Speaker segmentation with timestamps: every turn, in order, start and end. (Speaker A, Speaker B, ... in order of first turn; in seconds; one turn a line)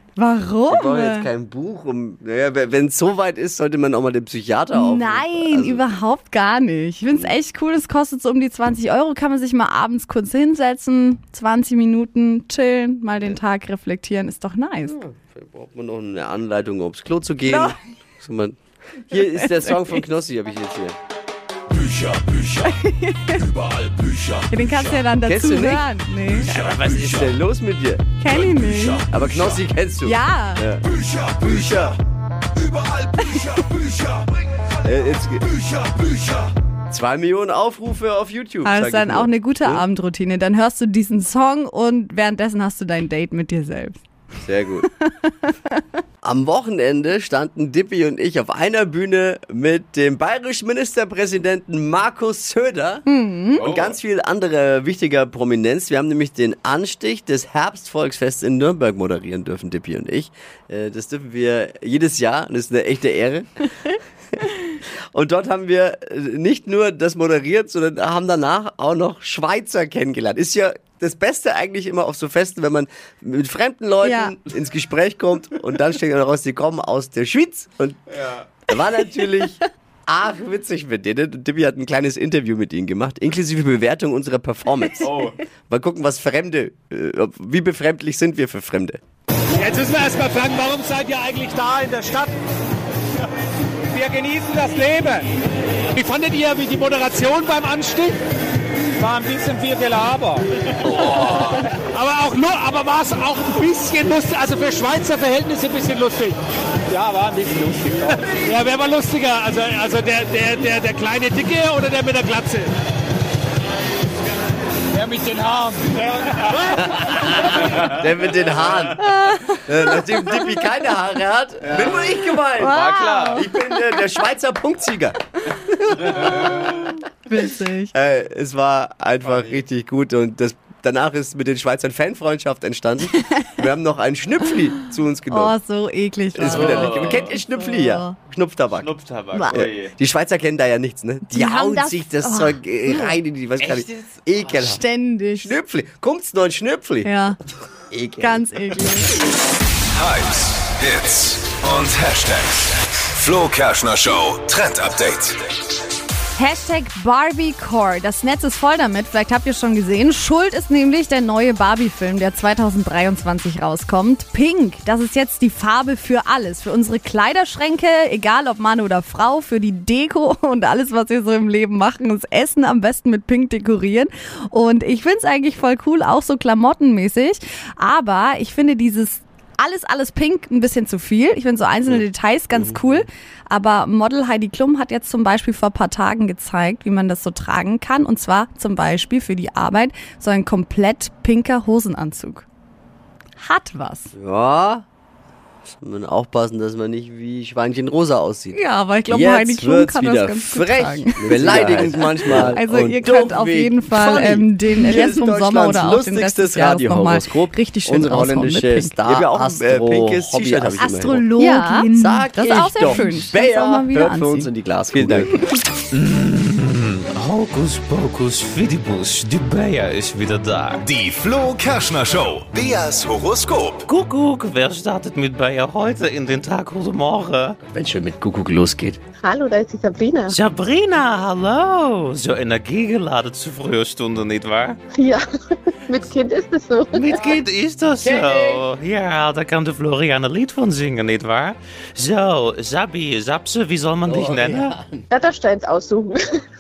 Speaker A: 0.2-1.3
Speaker B: 0.7-5.8
Speaker A: 4.7-15.0
Speaker B: 7.1-7.4
Speaker B: 14.9-18.6
Speaker A: 17.5-17.8
Speaker B: 19.1-21.0
Speaker A: 19.1-20.0
Speaker A: 22.5-23.6
Speaker A: 24.5-26.5
Speaker B: 25.2-25.9
Speaker C: 26.4-27.3
Speaker B: 26.8-28.1
Speaker A: 28.2-29.1
Speaker B: 29.1-32.0
Speaker A: 30.0-30.7
Speaker A: 33.2-33.6
Speaker B: 34.8-35.6
Speaker B: 36.9-39.9
Speaker A: 38.6-44.0
Speaker B: 44.4-44.9
Speaker B: 46.2-53.0
Speaker A: 53.1-53.7
Speaker B: 53.6-63.6
Speaker D: 53.6-53.9
Speaker B: 65.1-89.0
Speaker A: 74.0-74.3
Speaker D: 85.0-85.4
Speaker E: 89.6-92.3
Speaker E: 93.9-95.2
Speaker E: 95.9-98.2
Speaker E: 99.0-106.4
Speaker E: 106.9-112.7
Speaker E: 114.9-116.0
Speaker B: 116.9-119.0
Speaker A: 119.0-120.6
Speaker B: 119.7-125.2
Speaker D: 121.7-123.5
Speaker A: 122.6-123.6
Speaker B: 126.0-126.7
Speaker A: 126.2-127.9
Speaker B: 127.9-135.6
Speaker D: 129.2-129.5
Speaker A: 135.3-138.1
Speaker B: 136.3-139.0
Speaker D: 136.4-137.3
Speaker D: 138.8-139.9
Speaker A: 139.3-139.6
Speaker B: 139.5-144.8
Speaker A: 141.3-143.2
Speaker D: 143.6-144.1
Speaker A: 144.6-145.6
Speaker B: 145.4-147.1
Speaker A: 147.0-147.4
Speaker B: 147.9-148.5
Speaker A: 148.2-149.1
Speaker F: 150.0-155.4
Speaker A: 156.4-192.4
Speaker B: 181.9-183.1
Speaker A: 193.4-194.1
Speaker B: 194.1-194.8
Speaker B: 195.7-198.6
Speaker A: 198.5-209.0
Speaker D: 199.2-203.7
Speaker B: 200.2-205.7
Speaker D: 205.7-207.1
Speaker B: 206.3-215.3
Speaker D: 208.1-211.1
Speaker A: 210.8-214.5
Speaker C: 215.9-220.9
Speaker F: 220.9-223.8
Speaker C: 223.9-227.6
Speaker B: 227.7-229.0
Speaker C: 230.3-234.8
Speaker G: 235.9-237.1
Speaker C: 236.9-244.8
Speaker B: 237.1-237.4
Speaker B: 238.0-238.6
Speaker B: 244.1-245.1
Speaker G: 245.1-246.1